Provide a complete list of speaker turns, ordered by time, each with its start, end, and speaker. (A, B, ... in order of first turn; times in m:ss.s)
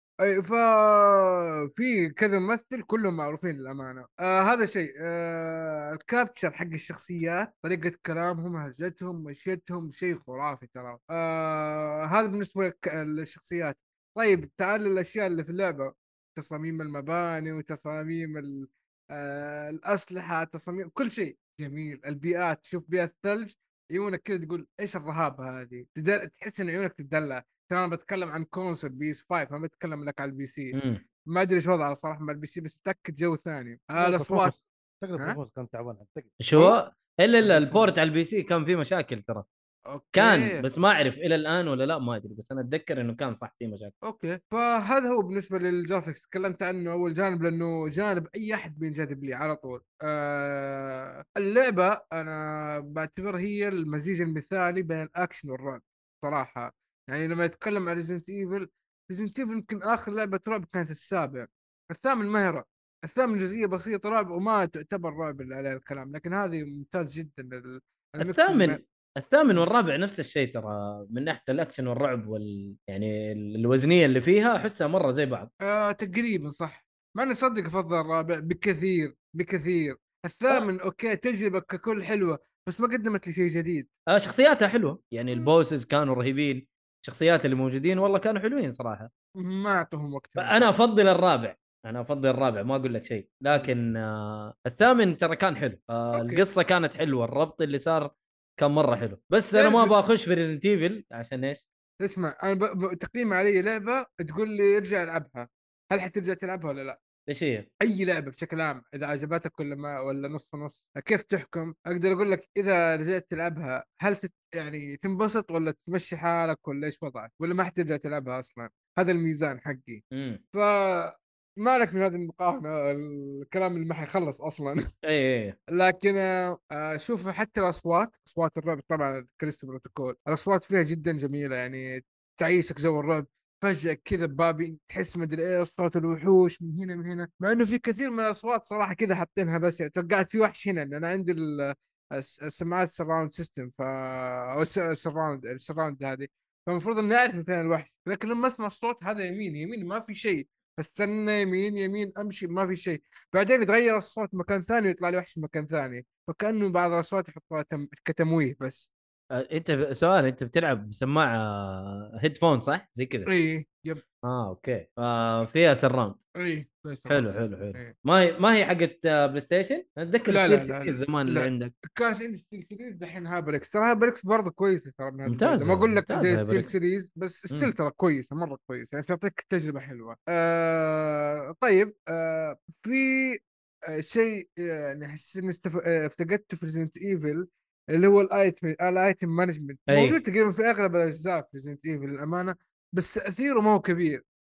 0:00.2-0:30.8 A
0:30.7-0:31.0 B
0:31.3-0:34.5 A
0:34.0-0:36.4 C
0:36.4-0:39.4 B
0:37.4-0:37.9 A
0:39.9-0:40.6 A
0:40.1-0:43.9 B
0:44.0-1:08.8 A
1:08.2-1:15.5 B
1:15.6-1:23.9 A
1:24.1-1:29.1 B
1:29.4-1:30.7 A
1:30.4-1:41.6 B
1:36.1-1:36.4 A
1:39.5-1:40.0 A
1:42.0-1:47.0 A
1:47.3-1:47.7 B
1:47.8-2:00.0 A
2:00.1-2:00.4 B
2:00.5-2:04.8 A
2:05.0-2:05.6 B
2:05.7-2:38.9 A
2:39.3-2:43.3 B
2:43.2-2:44.0 A
2:44.2-2:46.2 B
2:46.4-2:47.9 A
2:47.1-2:51.7 B
2:50.3-3:03.4 A
2:55.3-2:56.7 B
3:04.0-3:14.2 A
3:09.9-3:10.2 B